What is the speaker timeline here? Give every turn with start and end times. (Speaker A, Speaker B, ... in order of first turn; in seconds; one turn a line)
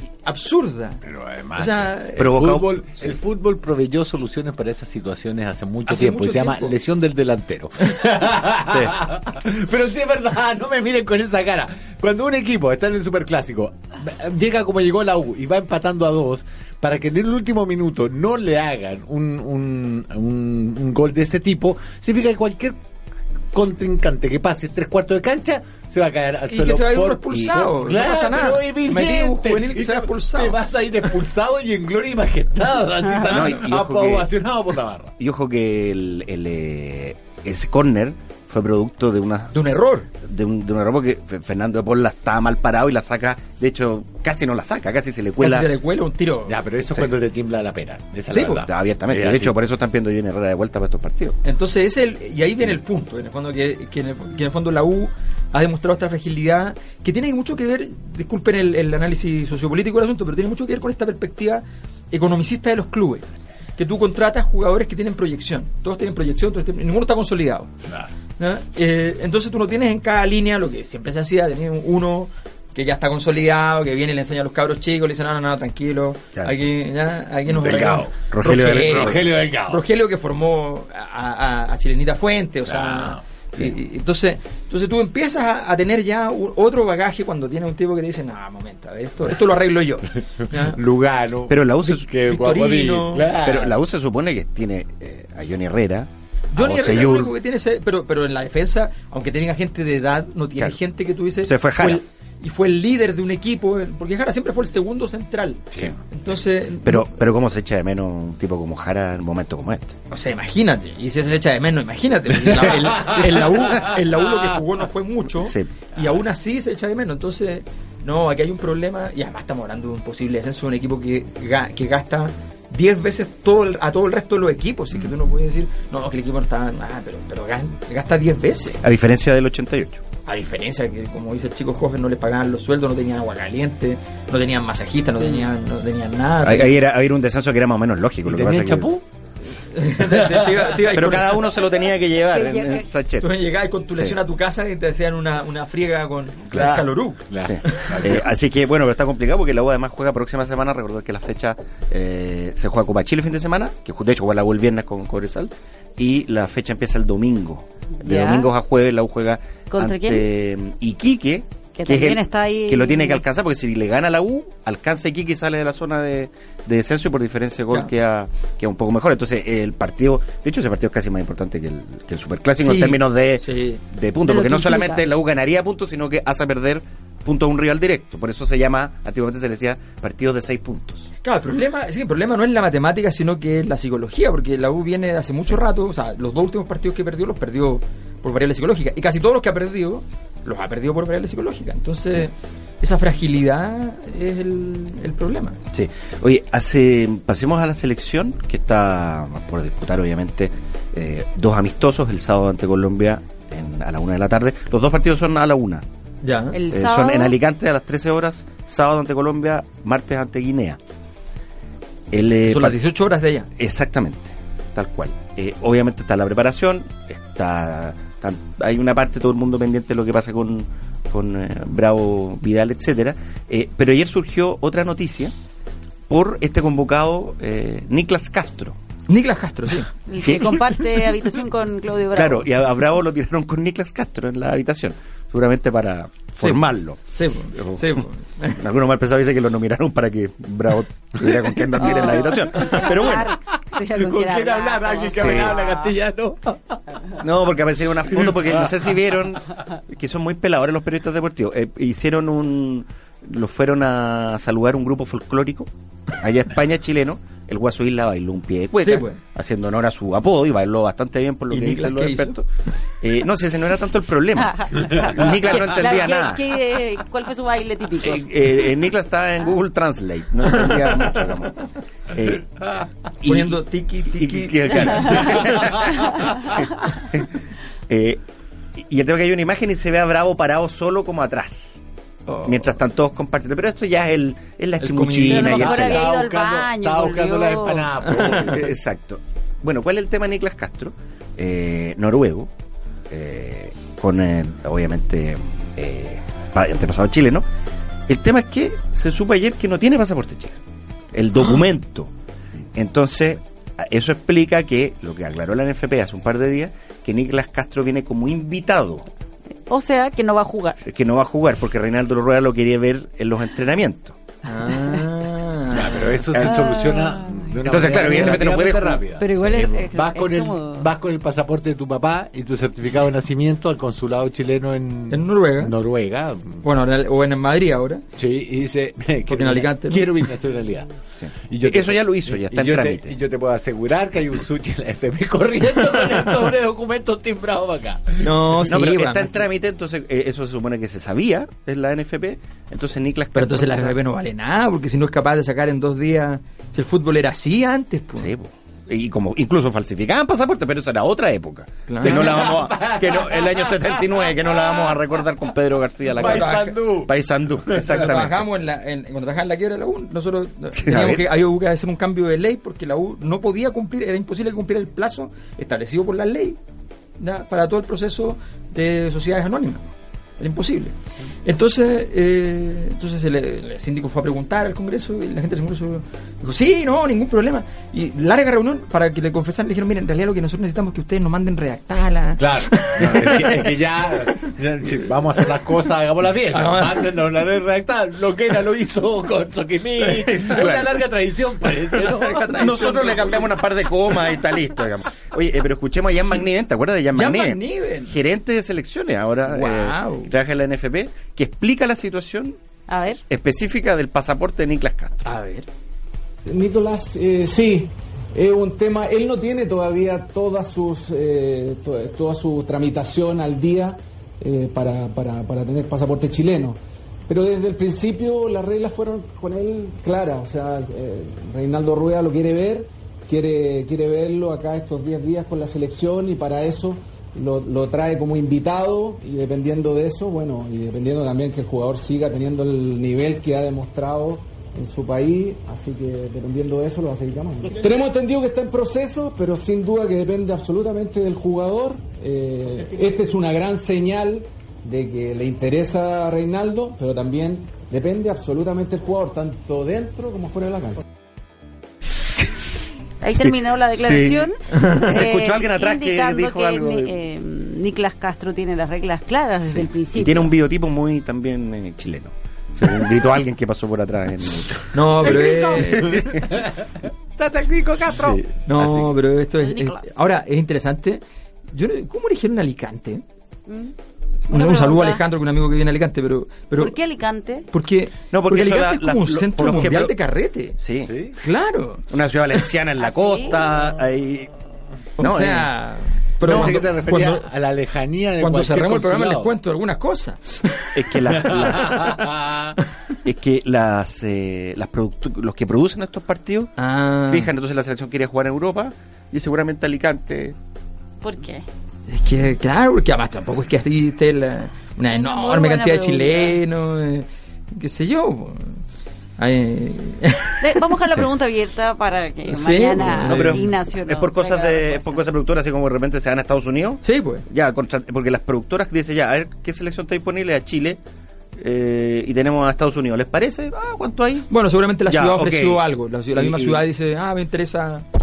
Speaker A: 0.2-1.0
Speaker B: 1.0-22.8
Speaker A: 1.6-2.3
Speaker C: 2.1-3.1
Speaker A: 5.9-6.8
Speaker C: 8.7-9.0
Speaker B: 23.5-35.1
Speaker A: 26.5-30.6
Speaker C: 33.2-34.3
Speaker A: 33.3-33.6
Speaker C: 35.2-45.7
Speaker A: 39.5-40.1
Speaker A: 45.4-47.1
Speaker B: 46.5-49.6
Speaker A: 48.3-48.6
Speaker C: 48.4-51.4
Speaker A: 51.4-63.3
Speaker A: 63.8-67.7
Speaker A: 68.4-90.8
Speaker B: 77.5-79.8
Speaker C: 77.6-79.2
Speaker B: 82.7-83.2
Speaker B: 90.5-93.8
Speaker C: 91.5-92.1
Speaker A: 92.2-93.4
Speaker C: 93.4-97.3
Speaker A: 96.5-107.2
Speaker C: 101.4-102.0
Speaker C: 106.8-110.0
Speaker A: 110.1-128.8
Speaker B: 112.8-113.1
Speaker C: 115.4-115.8
Speaker C: 128.8-130.0
Speaker A: 130.3-136.8
Speaker C: 136.4-138.9
Speaker B: 138.2-139.0
Speaker A: 139.6-141.6
Speaker C: 140.8-143.3
Speaker D: 142.3-142.8
Speaker A: 143.2-148.2
Speaker C: 143.9-144.2
Speaker C: 146.5-146.8
Speaker B: 146.5-148.3
Speaker C: 147.4-181.1
Speaker D: 158.0-158.5
Speaker D: 159.7-160.3
Speaker D: 161.8-163.2
Speaker A: 172.6-173.8
Speaker D: 174.2-175.1
Speaker A: 181.2-195.6
Speaker C: 195.7-205.8
Speaker A: 206.2-206.6
Speaker D: 206.5-207.3
Speaker C: 206.7-210.8
Speaker C: 212.1-212.8
Speaker A: 212.5-213.5
Speaker C: 213.6-225.3
Speaker C: 226.1-228.8
Speaker A: 229.1-229.9
Speaker D: 230.1-232.5
Speaker C: 230.2-231.1
Speaker C: 232.1-237.0
Speaker A: 237.1-238.6
Speaker C: 237.5-243.3
Speaker D: 241.8-245.9
Speaker B: 243.6-247.2
Speaker C: 245.1-245.6
Speaker C: 247.2-262.5
Speaker B: 248.2-248.7
Speaker A: 258.8-259.2
Speaker A: 261.5-262.4
Speaker C: 263.0-266.4
Speaker D: 264.4-268.3
Speaker C: 268.0-271.6
Speaker A: 270.7-271.0
Speaker C: 272.1-273.6
Speaker A: 273.2-275.9
Speaker C: 274.1-277.3
Speaker C: 277.9-278.2
Speaker C: 278.8-281.8
Speaker A: 282.3-282.7
Speaker C: 282.5-286.1
Speaker A: 284.8-286.0
Speaker D: 285.3-287.9
Speaker B: 285.6-288.6
Speaker A: 288.1-288.7
Speaker C: 288.1-292.5
Speaker C: 293.1-297.4
Speaker C: 298.1-300.6
Speaker C: 301.1-302.1
Speaker C: 302.8-309.1
Speaker D: 309.7-310.8
Speaker C: 310.9-314.2
Speaker A: 314.4-316.1
Speaker B: 315.7-326.6
Speaker C: 316.3-316.6
Speaker D: 316.4-318.3
Speaker C: 317.6-319.0
Speaker D: 319.2-320.9
Speaker A: 325.1-325.7
Speaker A: 326.6-328.0
Speaker B: 328.1-330.9
Speaker A: 329.3-330.1
Speaker C: 331.2-333.1
Speaker B: 331.5-338.7
Speaker A: 338.2-339.5
Speaker C: 338.6-344.0
Speaker A: 343.4-348.3
Speaker C: 348.1-358.5
Speaker A: 351.9-352.5
Speaker B: 352.0-355.2
Speaker B: 356.1-358.1
Speaker A: 356.1-356.7
Speaker A: 357.8-366.6
Speaker C: 360.8-361.3
Speaker A: 367.2-369.9
Speaker A: 370.4-384.3
Speaker B: 382.4-392.5
Speaker C: 383.1-383.4
Speaker A: 386.5-387.1
Speaker A: 390.0-390.9
Speaker A: 391.7-393.6
Speaker C: 392.5-402.6
Speaker A: 397.1-398.1
Speaker A: 399.5-400.3
Speaker D: 402.9-403.2
Speaker C: 403.3-405.3
Speaker A: 405.2-405.7
Speaker E: 406.4-451.1
Speaker D: 453.2-460.5
Speaker C: 453.3-457.1
Speaker A: 454.7-455.1
Speaker C: 459.6-466.5
Speaker A: 464.9-466.4
Speaker B: 465.2-468.4
Speaker C: 468.1-469.1
Speaker A: 468.7-473.2
Speaker D: 469.6-470.1
Speaker D: 473.7-473.9
Speaker D: 474.5-475.2
Speaker A: 474.5-476.9
Speaker D: 476.8-477.6
Speaker A: 477.7-480.8
Speaker C: 478.3-480.1
Speaker C: 480.8-481.1
Speaker B: 481.1-481.3
Speaker A: 481.4-482.0
Speaker C: 482.1-484.5
Speaker D: 483.0-483.6
Speaker A: 485.2-487.4
Speaker C: 485.2-485.7
Speaker B: 486.4-489.6
Speaker C: 486.5-486.8
Speaker A: 488.4-491.3
Speaker C: 490.9-492.1
Speaker B: 491.3-492.8
Speaker A: 491.8-492.1
Speaker C: 493.2-496.8
Speaker A: 496.8-497.5
Speaker C: 497.3-500.6
Speaker D: 501.2-501.6
Speaker A: 502.1-508.8
Speaker D: 505.1-506.6
Speaker A: 509.4-510.8
Speaker D: 510.6-515.2
Speaker A: 512.5-513.6
Speaker C: 513.0-521.0
Speaker A: 517.0-517.4
Speaker C: 521.6-524.5
Speaker A: 524.5-528.1
Speaker C: 525.1-525.8
Speaker C: 526.4-526.8